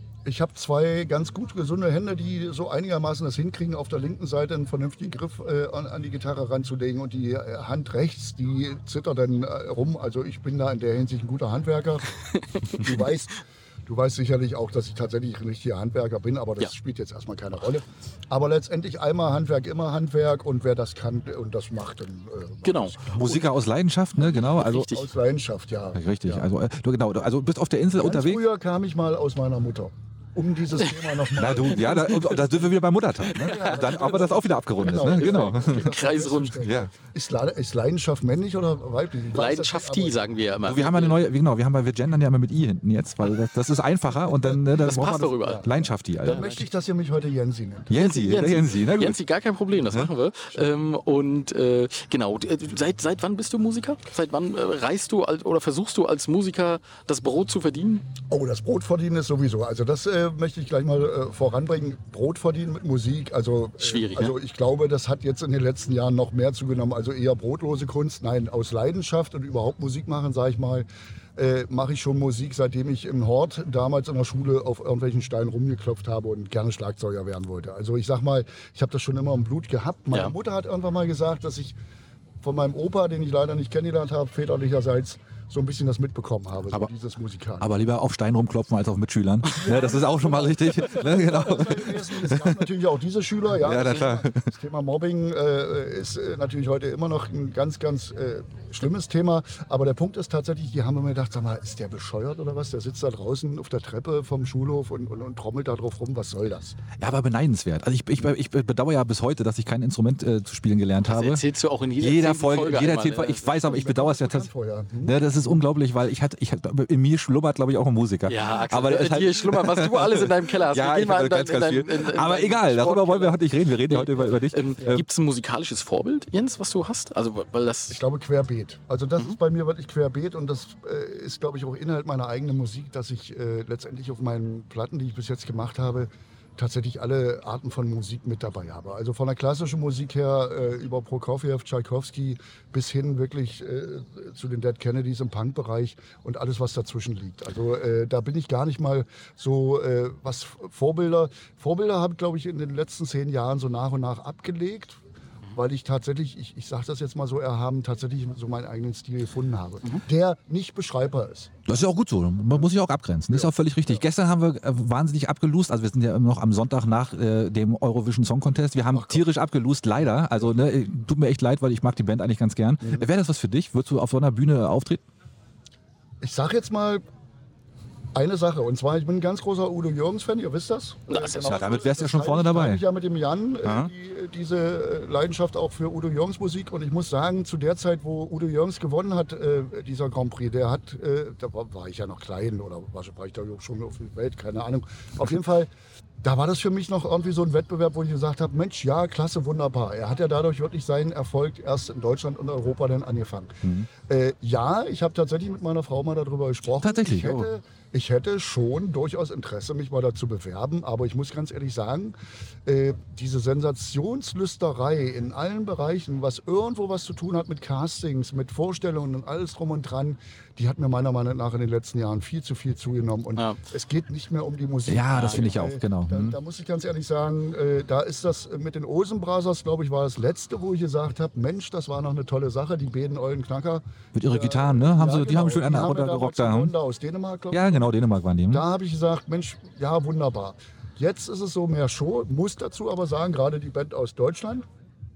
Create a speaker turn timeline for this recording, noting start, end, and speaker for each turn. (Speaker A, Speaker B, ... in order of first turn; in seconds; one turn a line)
Speaker A: 0.2-23.5
Speaker B: 12.5-13.0
Speaker B: 22.6-23.4
Speaker C: 23.1-24.9
Speaker B: 24.2-25.1
Speaker A: 24.8-26.5
Speaker C: 25.9-28.4
Speaker A: 28.0-32.5
Speaker B: 30.8-32.5
Speaker C: 31.4-35.9
Speaker B: 33.2-36.6
Speaker A: 33.3-40.2
Speaker C: 36.6-36.9
Speaker B: 39.3-41.2
Speaker C: 40.6-46.5
Speaker B: 44.7-45.7
Speaker A: 45.4-47.9
Speaker B: 46.2-46.6
Speaker C: 47.9-49.2
Speaker B: 47.9-58.1
Speaker A: 58.3-81.7
Speaker B: 63.8-64.3
Speaker A: 82.4-87.7
Speaker C: 87.6-92.7
Speaker A: 89.5-106.8
Speaker C: 93.6-94.5
Speaker C: 107.0-111.4
Speaker B: 111.0-113.6
Speaker C: 112.0-114.5
Speaker A: 113.6-115.2
Speaker C: 115.0-125.0
Speaker B: 118.2-128.0
Speaker A: 127.9-155.0
Speaker A: 155.5-161.5
Speaker C: 161.7-175.0
Speaker A: 163.3-164.0
Speaker A: 168.9-169.2
Speaker A: 176.2-177.0
Speaker A: 178.1-195.7
Speaker B: 181.1-181.7
Speaker C: 181.4-182.8
Speaker C: 183.6-183.9
Speaker A: 196.2-237.9
Speaker C: 203.6-203.9
Speaker C: 206.8-207.5
Speaker C: 224.9-226.4
Speaker B: 225.1-225.5
Speaker C: 234.1-236.7
Speaker C: 237.5-238.6
Speaker A: 238.5-244.7